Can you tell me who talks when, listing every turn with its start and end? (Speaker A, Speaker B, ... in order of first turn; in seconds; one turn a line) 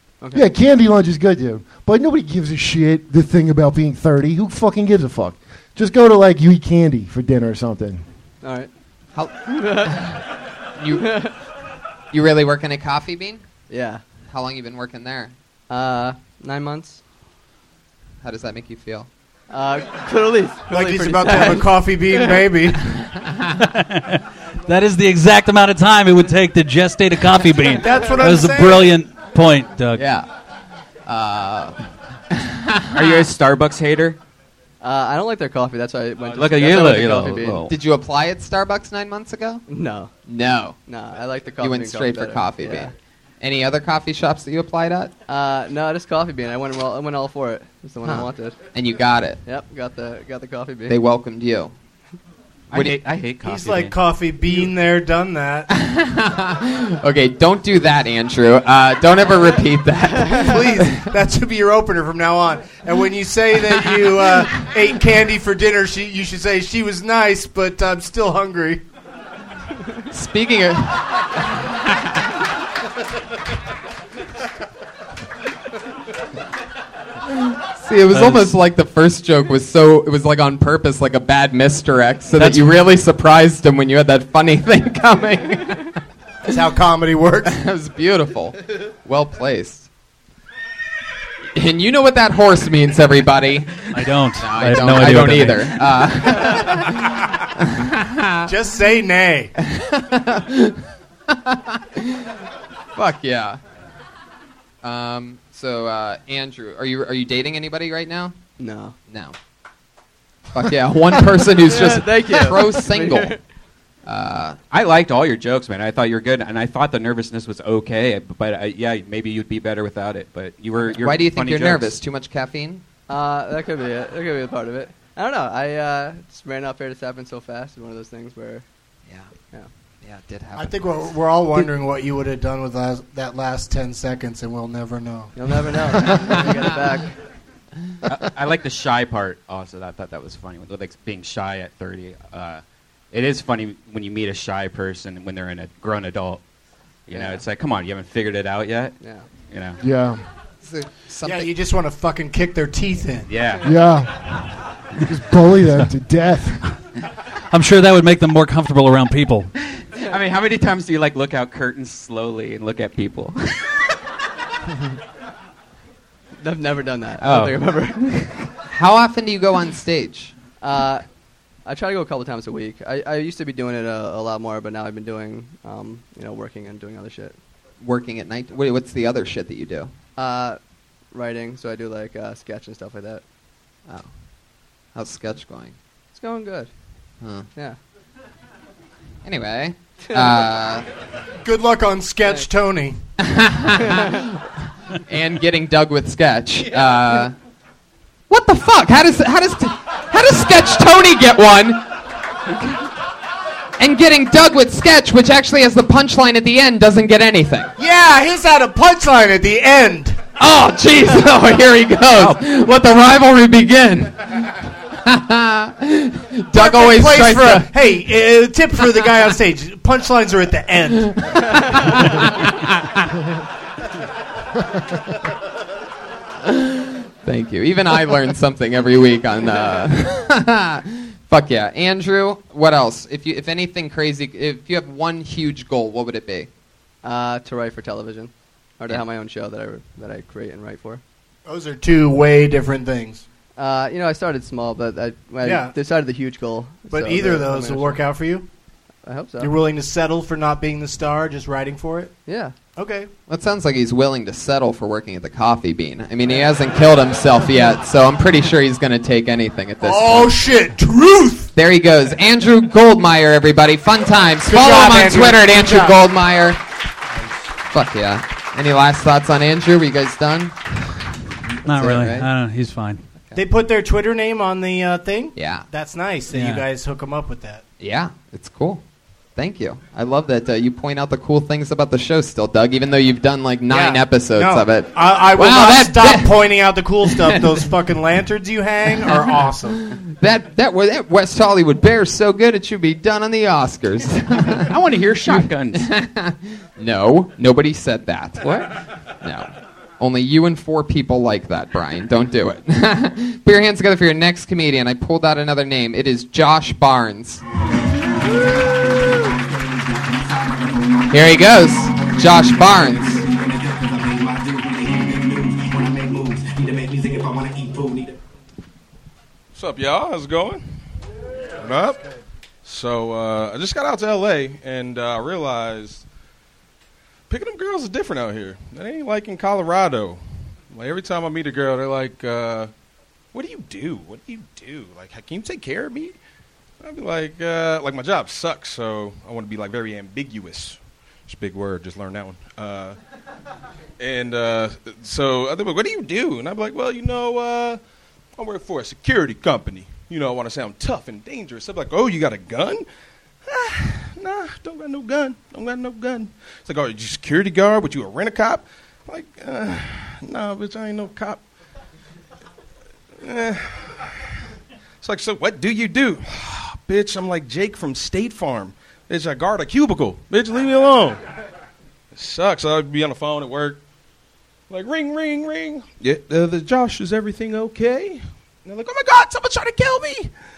Speaker A: 0.2-0.5
Speaker B: 0.3-8.0
Speaker A: 8.4-8.7
Speaker C: 9.1-10.2
Speaker A: 9.5-10.1
Speaker C: 10.8-11.2
Speaker A: 11.0-11.3
Speaker C: 12.1-13.4
Speaker A: 13.7-14.0
Speaker C: 14.3-15.3
Speaker A: 15.7-17.0
Speaker C: 18.2-19.1
Speaker A: 19.5-22.4
Speaker D: 20.7-22.9
Speaker E: 23.7-30.1
Speaker D: 27.7-28.9
Speaker C: 29.9-30.3
Speaker C: 31.1-31.8
Speaker C: 32.4-33.2
Speaker F: 32.9-34.2
Speaker A: 34.8-37.7
Speaker F: 36.3-37.7
Speaker C: 37.7-39.6
Speaker A: 39.7-40.1
Speaker C: 40.2-40.8
Speaker A: 40.9-42.9
Speaker C: 41.6-45.1
Speaker A: 45.3-48.5
Speaker C: 48.0-49.4
Speaker A: 49.4-51.0
Speaker C: 50.9-51.7
Speaker F: 52.7-54.0
Speaker C: 52.7-53.0
Speaker D: 53.4-55.7
Speaker C: 55.7-61.1
Speaker D: 60.3-68.8
Speaker C: 70.1-71.7
Speaker C: 77.5-86.0
Speaker E: 78.1-78.5
Speaker E: 82.3-82.8
Speaker D: 86.5-87.6
Speaker C: 87.5-89.9
Speaker C: 91.5-98.5
Speaker E: 93.9-95.8
Speaker D: 98.5-99.5
Speaker C: 99.6-102.4
Speaker C: 102.9-103.6
Speaker C: 104.8-108.3
Speaker A: 108.6-108.9
Speaker C: 109.1-109.3
Speaker C: 110.5-113.3
Speaker A: 111.6-113.4
Speaker C: 114.0-114.6
Speaker F: 114.7-121.9
Speaker C: 120.9-122.8
Speaker A: 123.1-128.6
Speaker C: 130.0-130.9
Speaker D: 130.6-135.3
Speaker A: 135.3-137.1
Speaker F: 138.1-146.4
Speaker F: 147.1-148.9
Speaker A: 149.0-149.2
Speaker F: 149.5-149.8
Speaker B: 149.8-150.2
Speaker C: 150.6-151.5
Speaker D: 151.2-153.3
Speaker F: 153.3-153.7
Speaker B: 153.6-156.6
Speaker E: 157.5-159.5
Speaker F: 159.9-163.8
Speaker A: 166.4-168.1
Speaker F: 167.2-167.6
Speaker C: 168.6-170.3
Speaker A: 170.6-171.0
Speaker A: 171.7-177.3
Speaker C: 177.8-179.9
Speaker A: 180.2-180.6
Speaker A: 181.1-183.2
Speaker C: 184.9-185.8
Speaker A: 186.1-186.7
Speaker C: 187.2-187.5
Speaker C: 189.2-190.8
Speaker D: 191.4-193.0
Speaker C: 193.2-194.3
Speaker A: 193.9-194.1
Speaker C: 195.1-197.3
Speaker C: 198.3-201.9
Speaker C: 203.8-207.7
Speaker D: 207.8-210.2
Speaker C: 210.4-217.7
Speaker D: 216.5-221.4
Speaker C: 221.7-223.0
Speaker C: 226.4-236.5
Speaker A: 237.0-241.0
Speaker D: 241.4-243.2
Speaker A: 243.6-248.0
Speaker D: 245.4-245.7
Speaker D: 246.9-248.5
Speaker A: 249.0-249.5
Speaker D: 249.4-252.1
Speaker A: 252.2-252.5
Speaker D: 252.8-253.1
Speaker C: 253.3-260.4
Speaker D: 259.8-261.5
Speaker C: 261.5-266.6
Speaker D: 264.4-266.0
Speaker C: 267.7-270.6
Speaker C: 271.6-272.3
Speaker E: 271.6-273.0
Speaker D: 273.3-277.6
Speaker C: 275.4-275.6
Speaker E: 276.3-276.6
Speaker C: 277.8-278.8
Speaker C: 279.4-286.3
Speaker D: 283.7-289.8
Speaker C: 287.0-287.6
Speaker C: 288.9-294.7
Speaker F: 294.6-295.9
Speaker C: 295.3-307.4
Speaker C: 311.1-313.2
Speaker G: 319.5-320.6
Speaker G: 321.6-322.0
Speaker G: 322.6-326.0
Speaker G: 327.3-330.2
Speaker G: 330.7-332.7
Speaker G: 333.3-336.2
Speaker G: 336.8-343.0
Speaker G: 344.0-347.8
Speaker G: 348.4-352.9
Speaker G: 353.4-361.4
Speaker G: 363.2-363.9
Speaker G: 365.0-371.2
Speaker G: 372.1-373.8
Speaker G: 374.7-380.3